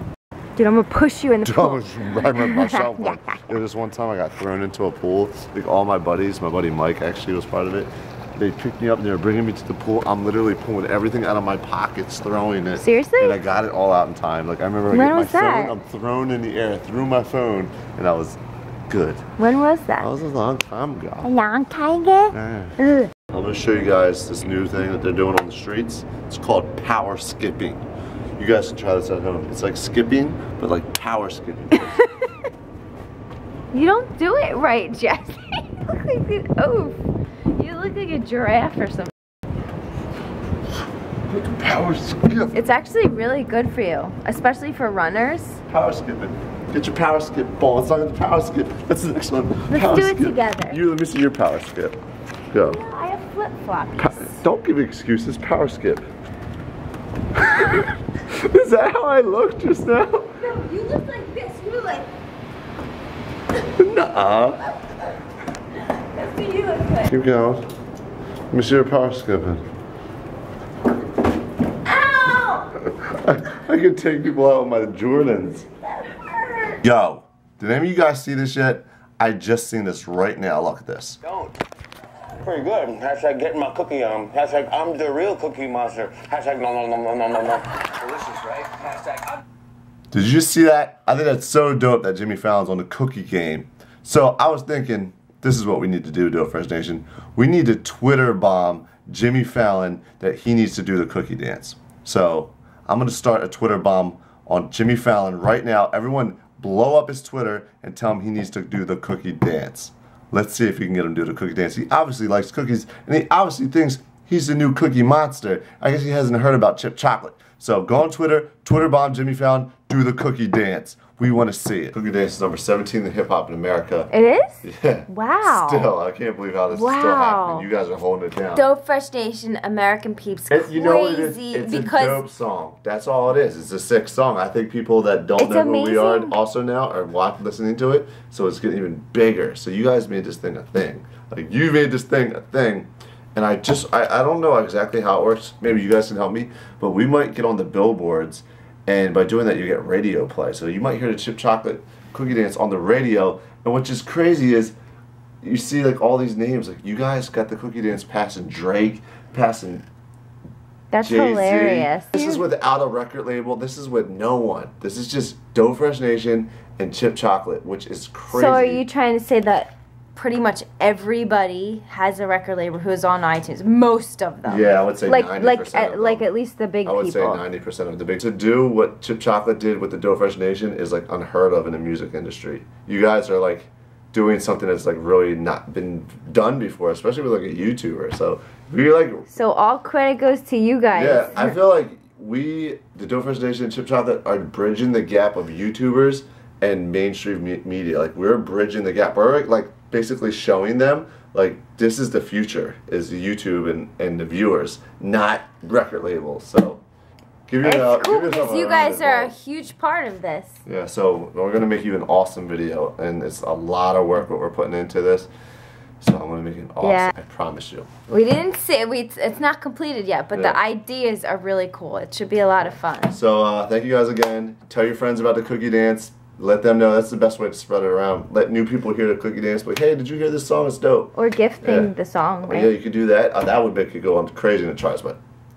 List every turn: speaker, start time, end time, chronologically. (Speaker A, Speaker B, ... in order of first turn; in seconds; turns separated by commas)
Speaker A: 0.6-3.5, Speaker B: 1.4-19.2, Speaker A: 12.8-13.4, Speaker A: 14.9-15.8, Speaker A: 19.4-20.1, Speaker B: 20.0-21.3, Speaker A: 21.2-23.1, Speaker B: 22.3-22.8, Speaker B: 23.3-27.8, Speaker B: 28.4-31.9, Speaker A: 31.7-32.4, Speaker A: 33.7-39.1, Speaker B: 41.3-42.6, Speaker A: 42.5-45.6, Speaker B: 45.7-52.0, Speaker A: 49.7-50.8, Speaker B: 52.5-52.8, Speaker A: 52.6-54.4, Speaker B: 54.0-56.1, Speaker A: 57.5-57.8, Speaker B: 57.5-60.3, Speaker A: 60.4-62.1, Speaker B: 63.6-64.6, Speaker A: 66.1-67.2, Speaker B: 67.1-67.7, Speaker B: 68.5-69.6, Speaker A: 71.8-72.7, Speaker B: 72.8-75.7, Speaker B: 76.8-81.2, Speaker C: 81.2-81.5, Speaker C: 82.4-89.2, Speaker B: 90.1-124.1, Speaker A: 124.1-125.9, Speaker B: 124.6-128.6, Speaker A: 126.7-127.7, Speaker A: 128.5-132.2, Speaker B: 130.5-154.8, Speaker A: 135.4-136.3, Speaker B: 155.4-159.8, Speaker A: 160.9-162.4, Speaker B: 161.0-168.8, Speaker A: 168.3-177.4, Speaker B: 174.4-176.3, Speaker B: 176.9-189.2, Speaker A: 189.3-191.6, Speaker B: 190.9-206.8, Speaker B: 207.5-209.3, Speaker A: 207.6-210.6, Speaker B: 210.7-215.3, Speaker B: 216.0-217.9, Speaker A: 216.8-217.1, Speaker A: 218.1-223.2, Speaker B: 220.3-220.6, Speaker B: 223.1-231.9, Speaker A: 231.1-232.7, Speaker B: 232.5-235.2